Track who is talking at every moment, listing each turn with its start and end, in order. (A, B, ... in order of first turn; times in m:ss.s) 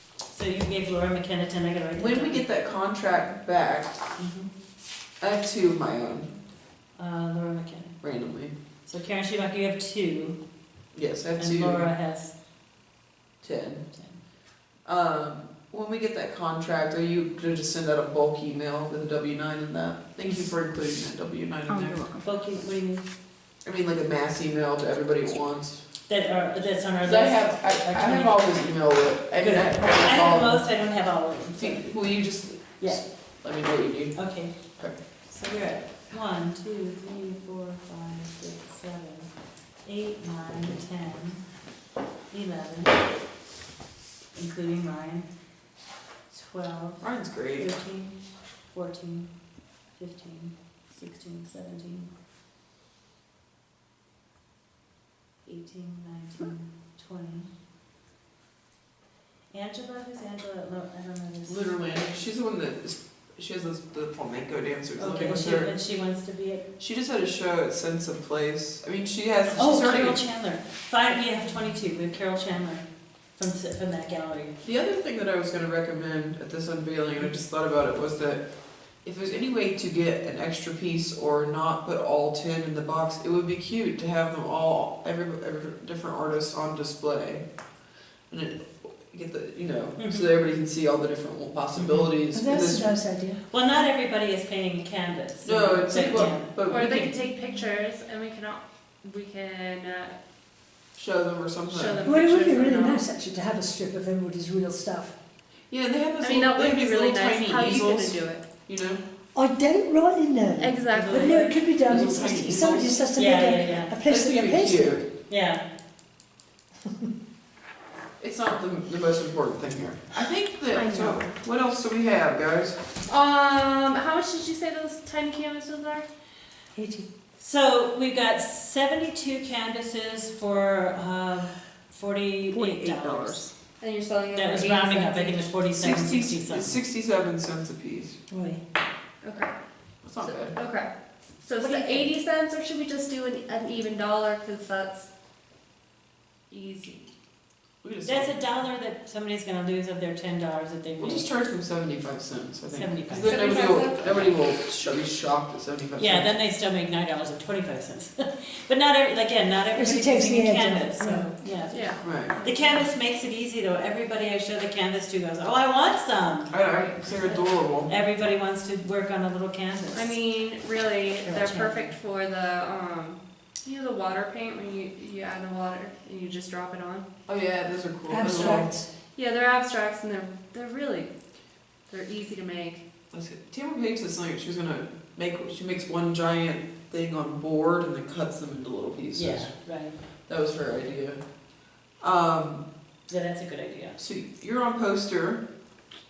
0:00.3-0:02.4 A
0:02.0-0:04.0 B
0:04.2-0:04.5 A
0:05.2-0:06.3 B
0:07.0-0:08.0 A
0:08.0-0:08.5 B
0:08.8-0:10.4 A
0:10.9-0:11.9 B
0:11.4-0:12.3 A
0:13.4-0:13.8 B
0:13.9-0:14.2 A
0:14.8-0:22.0 B
0:21.7-0:22.2 C
0:22.2-0:23.0 A
0:23.6-0:25.8 B
0:26.1-0:28.4 A
0:27.0-0:30.6 B
0:29.4-0:31.9 A
0:31.6-0:34.2 B
0:34.1-0:34.6 A
0:35.3-0:39.3 A
0:39.8-0:41.4 A
0:42.3-0:43.0 A
0:44.3-0:45.3 A
0:46.3-0:47.0 A
0:47.0-0:47.7 B
0:47.6-0:48.2 A
0:48.7-0:49.3 A
0:50.0-0:52.1 A
0:55.4-0:57.5 A
0:59.5-1:01.6 A
1:01.4-1:05.7 B
1:05.0-1:06.6 A
1:06.8-1:10.2 B
1:09.5-1:12.8 A
1:13.4-1:14.5 A
1:14.6-1:18.4 B
1:19.0-1:27.4 B
1:28.3-1:32.9 B
1:30.0-1:30.3 A
1:31.7-1:32.1 A
1:32.3-1:33.4 C
1:33.5-1:36.5 A
1:35.4-1:37.1 B
1:36.7-1:40.2 D
1:41.0-1:42.1 B
1:41.7-1:43.1 D
1:42.0-1:45.1 C
1:45.7-1:49.0 B
1:46.2-1:48.4 D
1:49.3-1:55.0 C
1:50.6-1:51.5 D
1:50.9-1:52.5 A
1:51.8-1:53.0 B
1:53.1-1:54.0 A
1:54.0-1:55.0 B
1:55.3-1:55.6 A
1:58.2-2:02.8 B
2:00.7-2:01.3 D
2:03.0-2:06.0 D
2:06.7-2:07.0 C
2:07.4-2:13.5 A
2:12.5-2:13.5 C
2:13.8-2:15.5 D
2:14.3-2:16.8 A
2:15.8-2:18.2 B
2:18.3-2:18.6 C
2:19.2-2:19.5 D
2:20.0-2:20.5 B
2:20.2-2:20.9 D
2:21.4-2:25.1 D
2:21.6-2:21.9 A
2:26.5-2:27.1 D
2:27.8-2:28.3 B
2:28.0-2:31.2 A
2:31.0-2:36.3 B
2:32.7-2:33.7 A
2:33.2-2:34.3 D
2:36.0-2:50.2 A
2:39.7-2:41.3 C
2:41.7-2:42.8 D
2:42.0-2:42.4 B
2:46.5-2:47.9 B
2:46.6-2:47.0 D
2:49.9-2:57.0 D
2:51.2-2:51.9 A
2:57.3-2:58.7 B
2:58.1-2:58.9 C
2:58.3-3:01.1 D
3:01.9-3:02.8 D
3:03.1-3:09.5 B
3:09.1-3:10.0 A
3:10.3-3:11.2 B
3:12.0-3:12.6 B
3:13.1-3:14.0 A
3:14.0-3:15.4 B